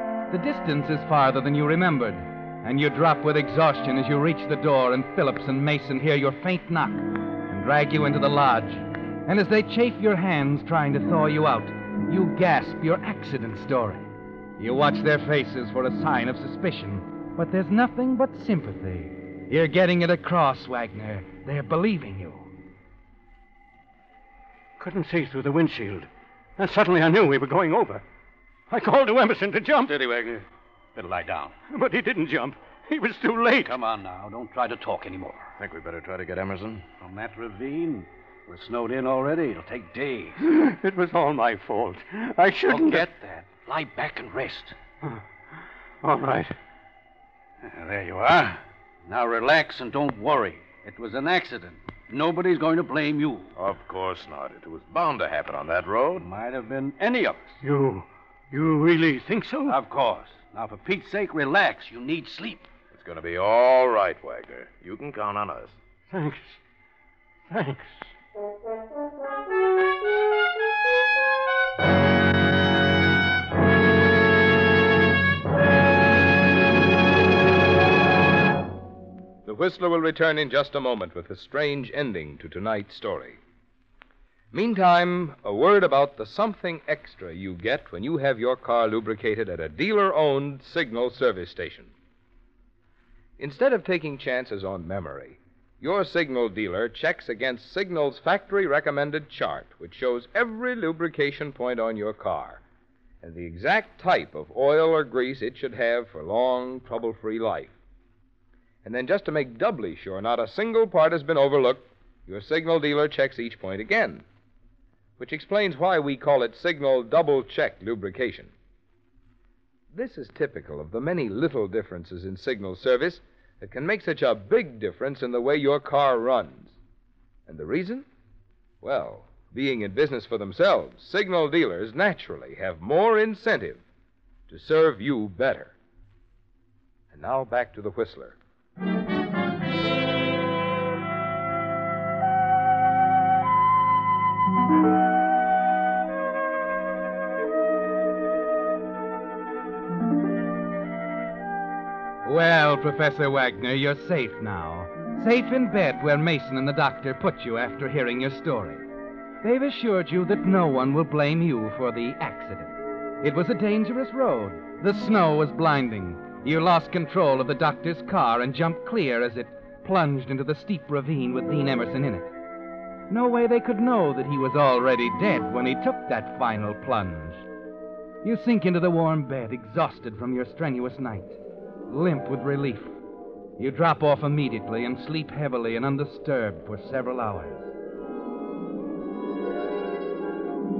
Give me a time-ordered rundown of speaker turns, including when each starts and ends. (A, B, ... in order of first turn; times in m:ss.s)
0:00.3-0:22.5 A
0:24.8-0:28.0 B
0:28.7-0:29.9 B
0:29.9-0:31.6 C
0:31.7-0:33.7 B
0:33.7-0:35.5 C
0:35.6-0:36.8 D
0:37.0-0:40.4 C
0:40.4-0:43.1 B
0:42.7-0:44.8 C
0:46.0-0:46.5 B
0:47.6-0:53.5 C
0:53.6-0:56.2 D
0:56.1-0:57.6 C
0:57.6-0:59.8 B
0:59.7-1:02.7 C
1:02.9-1:05.8 D
1:06.1-1:06.6 B
1:07.5-1:08.0 B
1:19.4-1:23.4 E
1:24.5-1:31.9 E
1:33.4-1:42.6 E
1:43.2-1:47.7 E
1:48.8-1:54.2 E
1:55.2-1:58.5 E
1:59.9-2:06.8 E
2:07.5-2:08.1 E
2:08.8-2:13.8 E
2:14.5-2:15.8 E
2:17.1-2:18.4 E
2:32.2-2:38.8 A
2:39.4-2:52.3 A
2:53.1-2:57.5 A
2:58.2-3:03.0 A
3:03.6-3:07.7 A